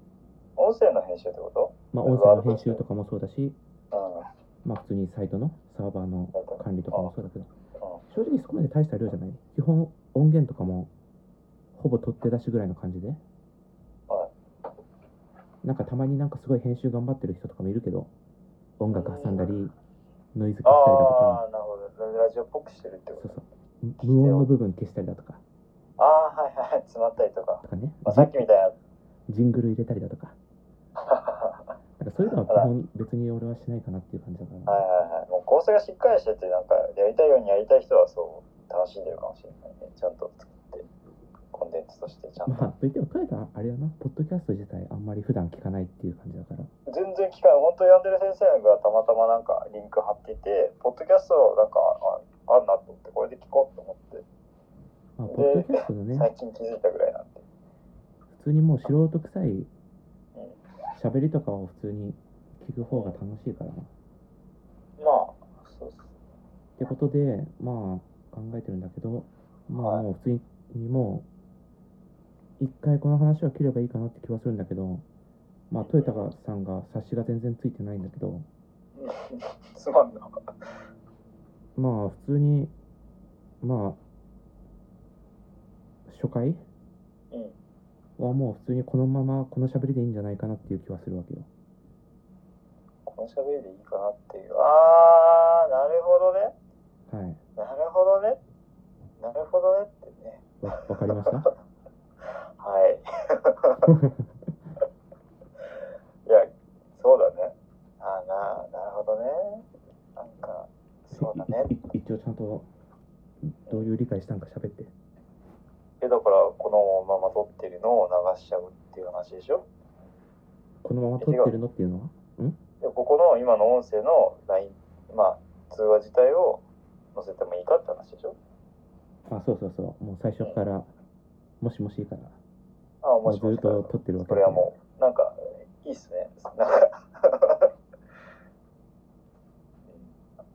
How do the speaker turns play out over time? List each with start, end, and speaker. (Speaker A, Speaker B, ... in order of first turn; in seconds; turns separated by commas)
Speaker A: 0.6-2.8, Speaker B: 1.9-3.6, Speaker A: 3.9-4.3, Speaker B: 4.6-7.5, Speaker A: 6.3-7.1, Speaker B: 8.1-10.9, Speaker B: 11.8-13.2, Speaker B: 15.6-18.1, Speaker B: 18.8-19.7, Speaker A: 18.9-19.6, Speaker B: 20.3-21.4, Speaker A: 20.6-23.4, Speaker B: 23.2-25.4, Speaker A: 24.0-24.5, Speaker A: 26.0-28.8, Speaker B: 27.6-28.4, Speaker B: 29.3-30.4, Speaker A: 31.0-31.7, Speaker B: 32.0-34.8, Speaker A: 34.7-40.9, Speaker A: 41.5-42.7, Speaker B: 42.5-46.7, Speaker A: 46.9-54.2, Speaker B: 55.2-56.3, Speaker A: 55.3-57.4, Speaker B: 58.3-59.7, Speaker A: 60.3-60.6, Speaker B: 60.9-63.9, Speaker A: 62.9-63.2, Speaker A: 65.0-66.1, Speaker B: 66.8-71.2, Speaker A: 69.8-70.0, Speaker B: 72.6-75.0, Speaker B: 75.7-78.5, Speaker A: 75.8-76.3, Speaker A: 79.0-80.3, Speaker B: 81.8-82.7, Speaker B: 83.6-84.0, Speaker B: 86.1-86.6, Speaker A: 87.3-87.6, Speaker B: 88.2-91.5, Speaker A: 93.0-96.5, Speaker B: 97.1-97.4, Speaker A: 97.6-98.4, Speaker A: 99.2-100.5, Speaker B: 100.6-101.5, Speaker A: 101.2-101.5, Speaker A: 102.2-103.9, Speaker B: 103.8-104.3, Speaker A: 106.2-111.8, Speaker B: 111.1-112.7, Speaker B: 113.4-114.9, Speaker A: 116.0-119.6, Speaker B: 120.8-122.6, Speaker A: 121.2-121.5, Speaker A: 122.8-126.6, Speaker A: 127.1-128.3, Speaker B: 129.3-130.9, Speaker B: 131.6-132.4, Speaker A: 133.0-137.7, Speaker B: 133.2-134.7, Speaker A: 139.8-140.2